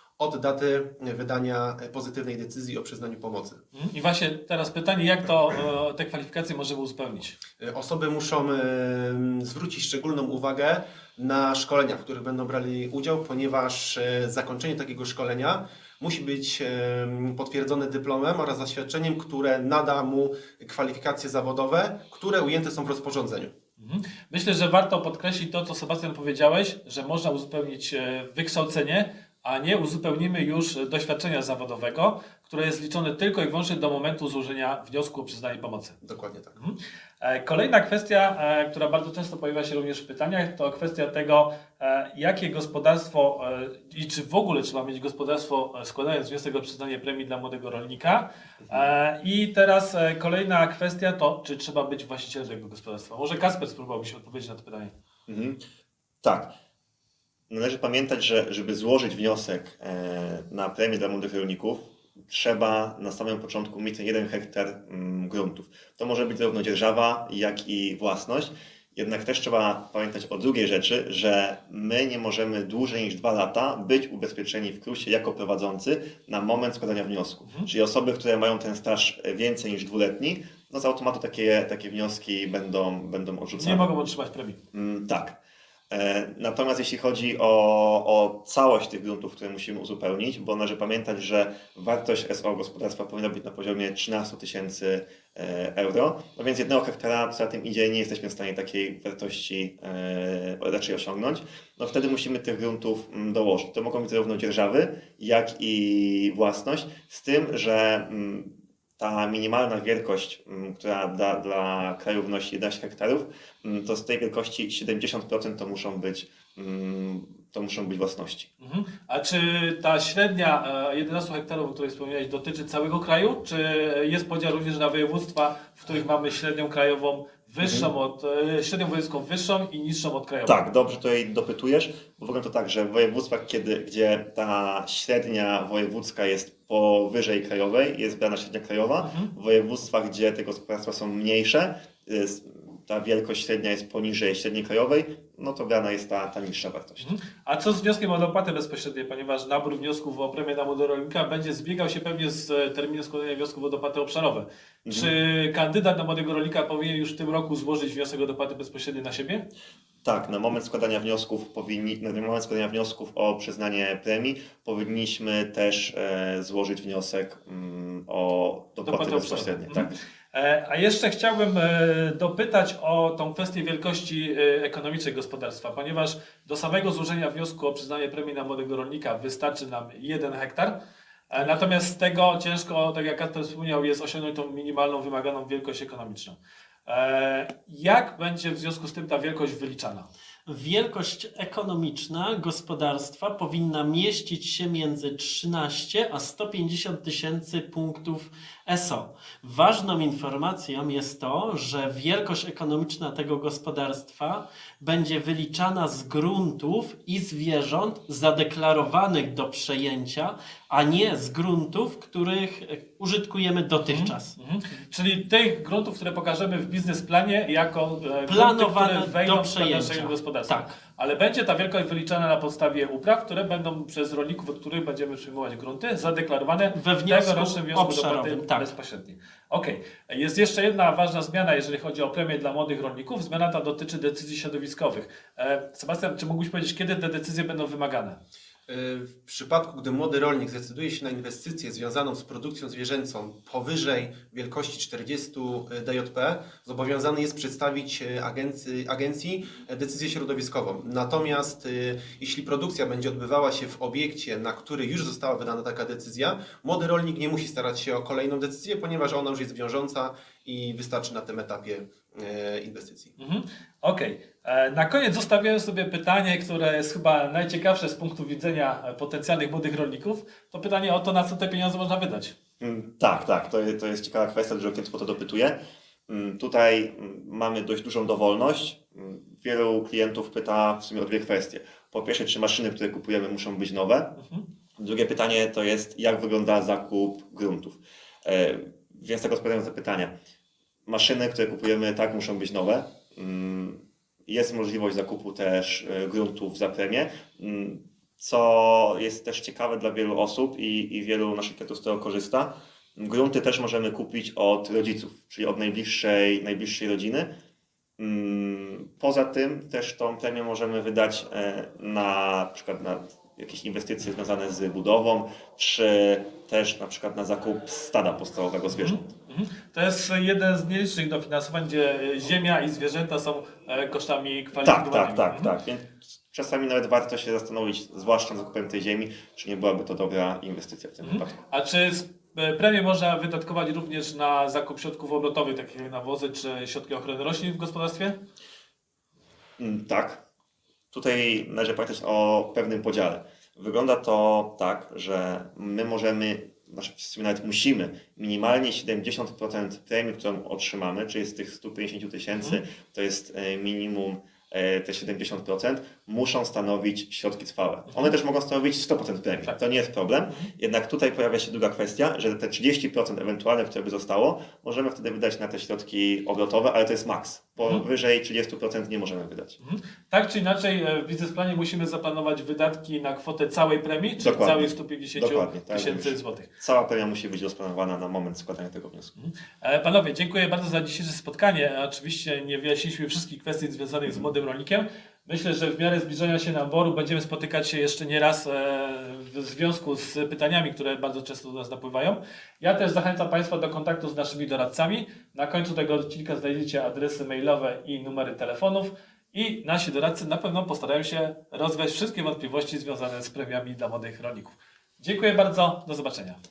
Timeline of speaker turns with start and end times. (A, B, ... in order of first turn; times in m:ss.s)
0:00.2-0:03.6 A
0:03.7-0:07.3 B
0:07.6-0:23.5 A
0:23.8-0:36.0 B
0:36.0-0:36.6 A
0:36.6-0:54.9 B
0:55.3-0:55.6 C
0:56.2-0:56.5 C
0:57.5-1:23.9 C
1:23.6-1:24.6 B
1:24.7-1:25.4 C
1:25.9-1:58.5 C
1:58.6-2:10.6 B
2:07.6-2:07.9 C
2:10.4-2:27.1 C
2:19.0-2:19.3 B
2:27.0-2:39.5 B
2:34.8-2:35.1 C
2:40.0-2:50.0 C
2:48.8-3:00.7 B
3:01.3-3:10.1 B
3:10.4-3:34.3 D
3:33.8-3:58.2 B
3:38.3-3:40.8 D
3:46.7-3:48.7 D
3:58.7-4:23.1 A
4:23.2-4:32.3 B
4:32.6-4:44.2 C
4:44.2-4:44.4 B
4:44.8-4:50.1 C
4:50.8-5:07.3 C
5:08.0-5:19.1 C
5:18.7-5:25.5 B
5:24.6-5:31.4 C
5:31.0-5:38.2 B
5:39.6-5:40.2 C
5:40.9-6:09.6 C
6:09.6-6:16.5 B
6:14.2-6:19.1 C
6:19.2-6:46.4 B